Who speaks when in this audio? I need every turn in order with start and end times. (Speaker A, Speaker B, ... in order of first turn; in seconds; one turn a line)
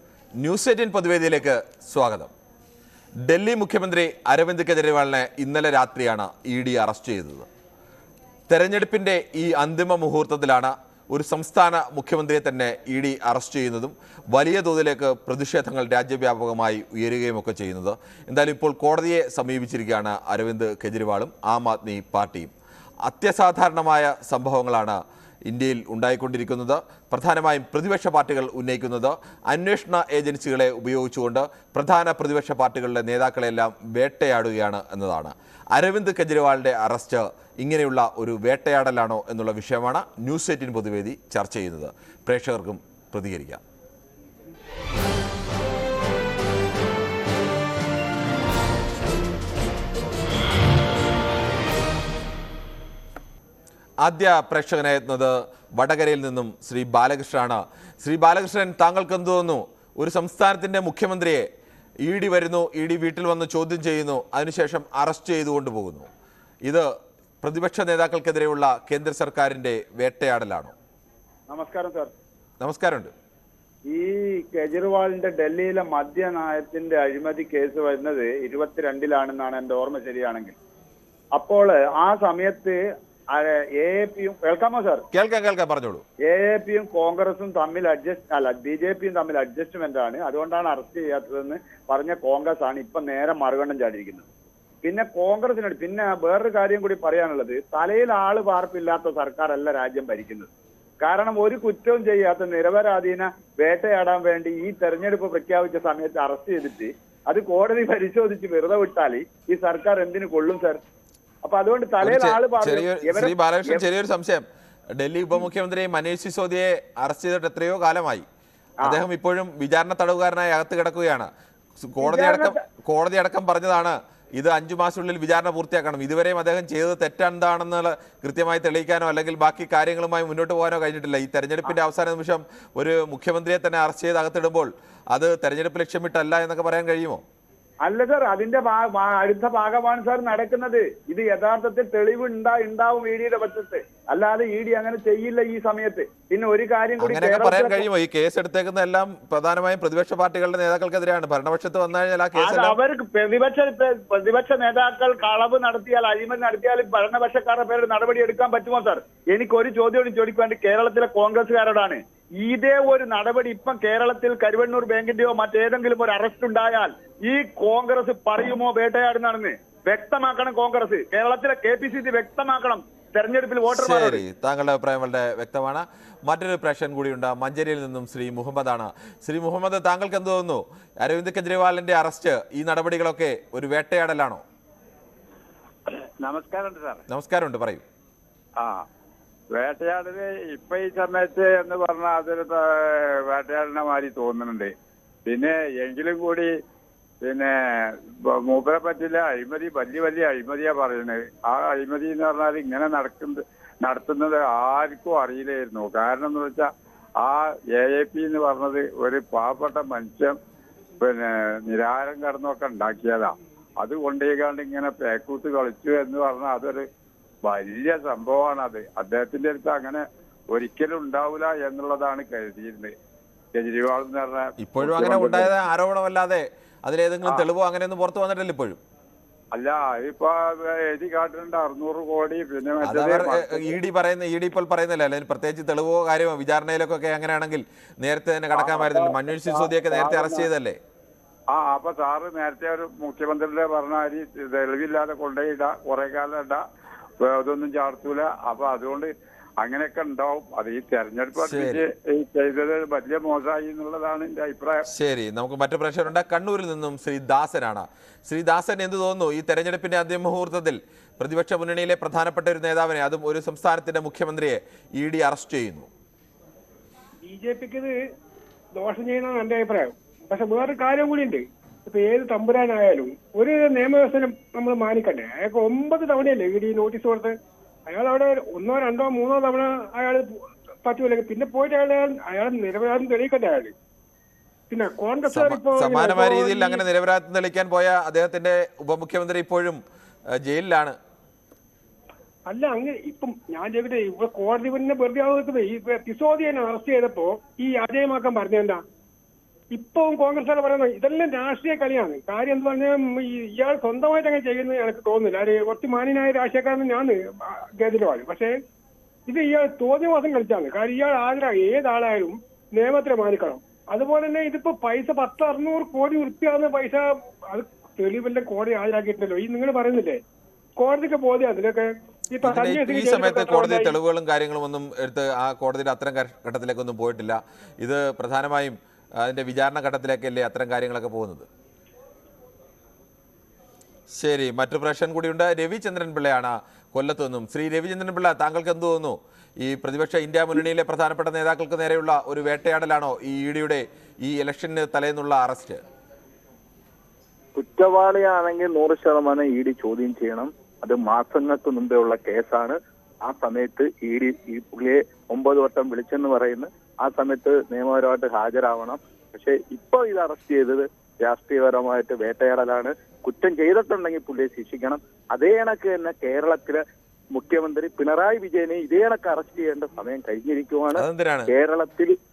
Speaker A: 0.4-2.3
Speaker A: 3.2-7.5
Speaker A: 8.5-22.5
Speaker A: 23.1-43.6
Speaker A: 54.0-61.5
Speaker A: 62.0-66.1
Speaker A: 67.4-70.7
Speaker B: 71.5-72.1
Speaker A: 72.6-73.1
Speaker B: 73.9-80.5
Speaker B: 81.3-82.8
Speaker B: 83.3-85.0
Speaker A: 85.1-86.0
Speaker B: 86.2-94.2
Speaker B: 94.8-100.5
Speaker B: 101.0-110.8
Speaker B: 111.4-113.8
Speaker A: 112.0-114.4
Speaker A: 115.0-118.2
Speaker A: 118.8-121.3
Speaker A: 121.8-137.2
Speaker B: 122.0-122.5
Speaker B: 137.8-147.8
Speaker A: 147.0-152.8
Speaker B: 152.3-174.2
Speaker A: 173.7-184.4
Speaker C: 186.2-187.0
Speaker A: 187.1-187.8
Speaker C: 189.5-194.7
Speaker C: 195.2-196.5
Speaker C: 197.2-206.7
Speaker C: 207.2-210.3
Speaker C: 211.0-216.8
Speaker C: 217.4-222.9
Speaker C: 223.5-225.5
Speaker A: 224.6-228.8
Speaker C: 229.5-233.8
Speaker A: 232.8-240.8
Speaker C: 238.5-240.5
Speaker C: 241.5-246.6
Speaker C: 247.2-249.1
Speaker C: 249.6-254.8
Speaker A: 251.4-251.8
Speaker A: 254.9-265.9
Speaker D: 267.2-267.9
Speaker D: 268.8-277.3
Speaker D: 277.9-283.7
Speaker D: 284.7-286.8
Speaker A: 285.3-289.8
Speaker A: 290.4-291.0
Speaker D: 292.5-298.8
Speaker D: 299.7-308.5
Speaker D: 309.3-320.2
Speaker D: 320.8-323.9
Speaker A: 322.4-331.5
Speaker A: 334.1-345.8
Speaker E: 347.5-372.2
Speaker A: 370.9-371.5